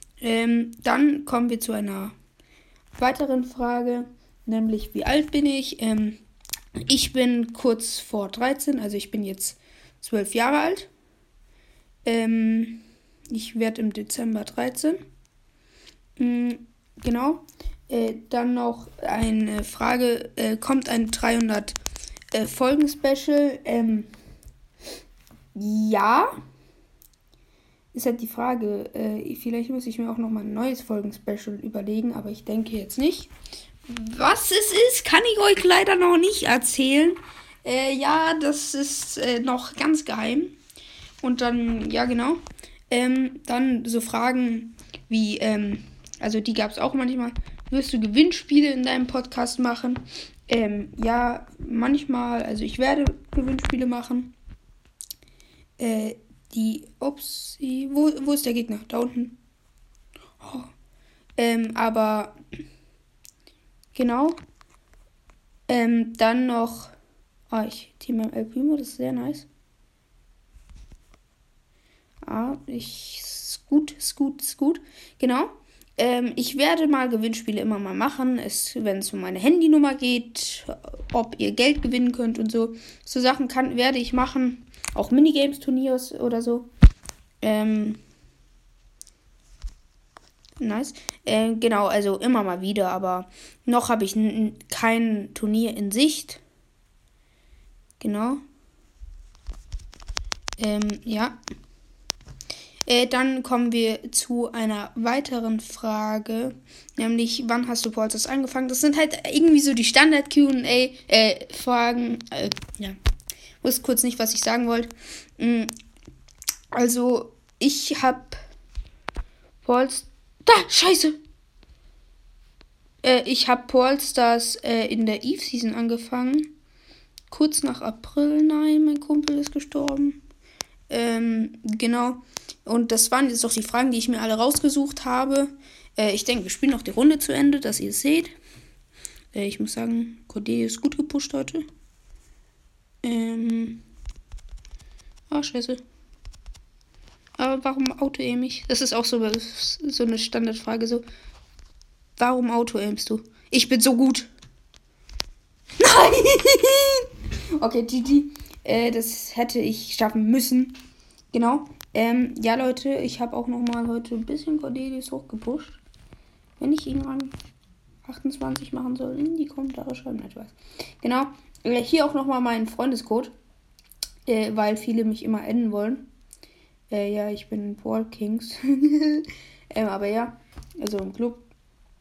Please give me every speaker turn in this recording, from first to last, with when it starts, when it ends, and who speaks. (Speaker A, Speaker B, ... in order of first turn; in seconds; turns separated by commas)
Speaker A: 0.2-2.1, Speaker A: 3.0-6.2, Speaker A: 6.8-10.9, Speaker A: 12.0-15.0, Speaker A: 16.2-21.8, Speaker A: 22.3-24.1, Speaker A: 25.5-26.3, Speaker A: 27.9-33.3, Speaker A: 33.9-40.6, Speaker A: 41.2-54.3, Speaker A: 55.8-59.4, Speaker A: 60.4-60.7, Speaker A: 61.4-62.3, Speaker A: 63.9-64.3, Speaker A: 65.7-66.9, Speaker A: 67.5-69.5, Speaker A: 72.2-86.7, Speaker A: 87.4-88.0, Speaker A: 90.6-96.4, Speaker A: 98.0-98.4, Speaker A: 100.6-101.4, Speaker A: 102.8-113.0, Speaker A: 113.6-115.7, Speaker A: 116.7-118.4, Speaker A: 119.6-121.2, Speaker A: 123.0-126.5, Speaker A: 127.3-130.2, Speaker A: 130.9-138.3, Speaker A: 139.3-141.6, Speaker A: 143.0-143.8, Speaker A: 145.3-145.8, Speaker A: 147.4-151.0, Speaker A: 152.2-154.3, Speaker A: 155.8-157.1, Speaker A: 157.6-160.8, Speaker A: 161.3-165.8, Speaker A: 166.6-167.3, Speaker A: 168.0-173.3, Speaker A: 174.2-176.1, Speaker A: 176.9-181.4